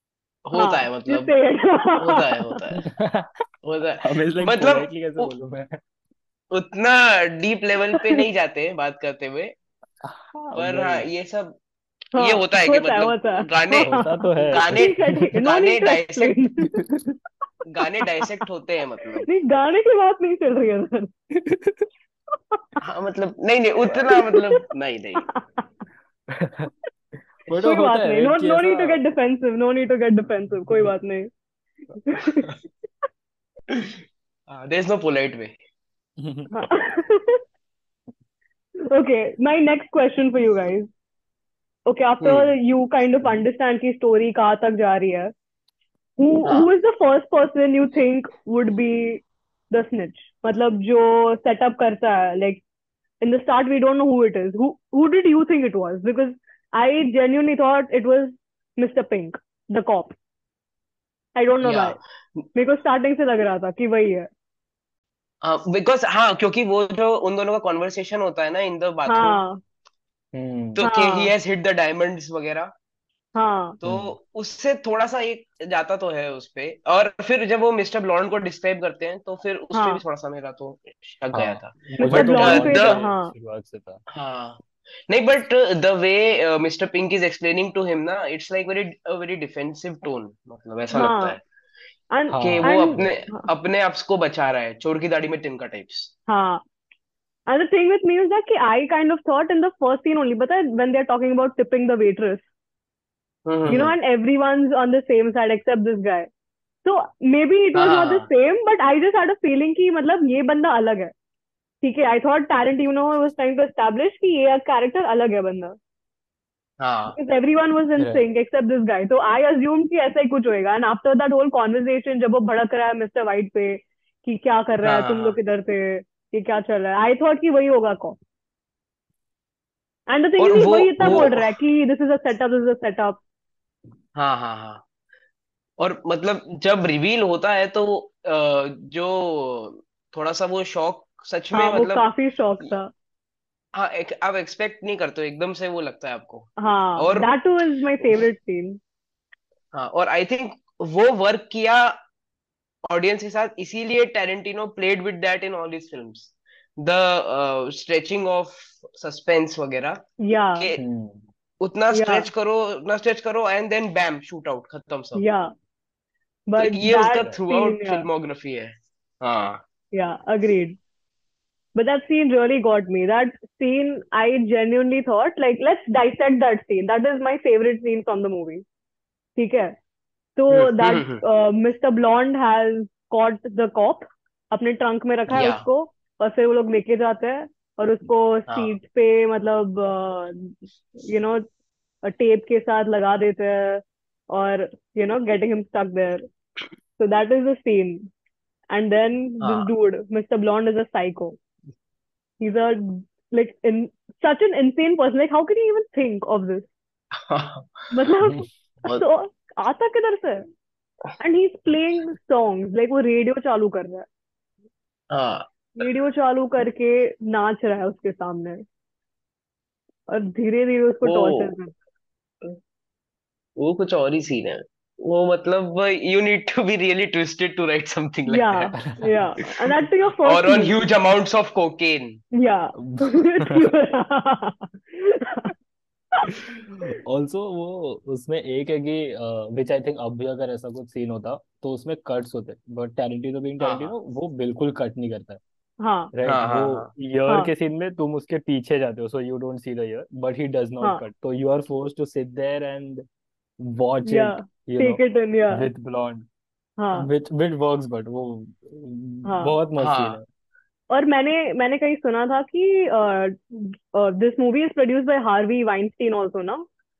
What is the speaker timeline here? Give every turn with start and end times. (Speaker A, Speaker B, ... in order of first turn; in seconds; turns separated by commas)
Speaker A: 0.5-1.3, Speaker B: 0.5-2.5, Speaker A: 2.0-2.8, Speaker C: 2.7-3.3, Speaker A: 3.6-5.3, Speaker C: 4.0-5.8, Speaker A: 6.5-9.5, Speaker C: 10.0-11.1, Speaker A: 10.6-11.6, Speaker B: 12.1-16.8, Speaker A: 12.2-13.9, Speaker C: 13.8-15.2, Speaker A: 14.5-16.4, Speaker C: 16.8-17.1, Speaker A: 17.7-19.3, Speaker B: 19.2-21.1, Speaker C: 21.3-21.9, Speaker B: 22.5-22.8, Speaker A: 22.8-25.3, Speaker B: 24.0-24.6, Speaker B: 25.3-25.6, Speaker C: 26.3-26.7, Speaker C: 27.4-29.0, Speaker B: 27.6-31.3, Speaker B: 32.0-32.5, Speaker A: 34.5-35.5, Speaker C: 36.2-36.5, Speaker B: 36.5-37.4, Speaker B: 38.9-40.9, Speaker B: 41.9-45.3, Speaker A: 42.2-42.5, Speaker B: 46.2-52.6, Speaker B: 53.2-60.1, Speaker B: 61.4-62.0, Speaker A: 61.6-62.0, Speaker B: 62.5-64.3, Speaker A: 65.4-69.4, Speaker B: 69.1-69.6, Speaker C: 70.3-70.8, Speaker A: 70.7-72.7, Speaker B: 70.8-71.3, Speaker B: 73.3-73.8, Speaker A: 73.8-83.0, Speaker C: 73.8-74.2, Speaker B: 79.7-80.0, Speaker C: 81.3-84.0, Speaker B: 82.0-83.3, Speaker A: 84.1-91.4, Speaker B: 90.9-91.3, Speaker B: 92.1-93.5, Speaker C: 92.3-93.1, Speaker A: 92.4-96.1, Speaker B: 96.3-96.6, Speaker B: 97.5-102.5, Speaker A: 103.5-103.9, Speaker B: 103.7-106.3, Speaker B: 106.8-111.1, Speaker A: 107.7-108.2, Speaker B: 111.8-115.8, Speaker A: 116.8-117.2, Speaker B: 117.1-128.2, Speaker C: 118.0-118.2, Speaker A: 124.8-125.4, Speaker B: 130.1-133.2, Speaker A: 130.4-131.5, Speaker C: 131.0-131.3, Speaker A: 134.2-134.8, Speaker A: 135.8-142.1, Speaker B: 141.5-142.9, Speaker A: 143.7-147.3, Speaker B: 146.6-148.8, Speaker A: 149.7-151.9, Speaker A: 152.8-160.0, Speaker B: 160.2-160.7, Speaker A: 160.6-160.8, Speaker C: 160.8-161.2, Speaker A: 161.6-165.2, Speaker B: 161.9-162.3, Speaker B: 165.2-165.5, Speaker B: 166.5-168.1, Speaker A: 166.6-169.6, Speaker B: 169.9-170.8, Speaker B: 171.7-178.6, Speaker B: 179.3-179.7, Speaker B: 180.4-191.4, Speaker A: 180.5-181.2, Speaker A: 185.3-185.6, Speaker A: 188.5-188.8, Speaker B: 192.0-196.2, Speaker B: 197.0-198.1, Speaker B: 198.7-201.4, Speaker A: 199.4-199.7, Speaker B: 202.4-206.7, Speaker A: 207.2-207.9, Speaker B: 207.9-210.4, Speaker B: 211.2-214.1, Speaker A: 215.1-215.4, Speaker B: 215.8-218.6, Speaker B: 220.1-221.7, Speaker A: 221.0-221.5, Speaker A: 223.6-228.7, Speaker B: 228.3-230.7, Speaker C: 228.7-229.2, Speaker A: 230.2-232.2, Speaker B: 232.3-235.5, Speaker C: 232.9-233.7, Speaker C: 237.0-245.4, Speaker A: 243.6-243.9, Speaker B: 245.8-246.1, Speaker C: 246.1-253.0, Speaker A: 246.2-246.9, Speaker C: 253.6-256.2, Speaker B: 254.0-255.7, Speaker B: 256.8-257.1, Speaker C: 256.9-260.2, Speaker B: 259.2-259.5, Speaker A: 259.8-260.2, Speaker B: 260.9-266.6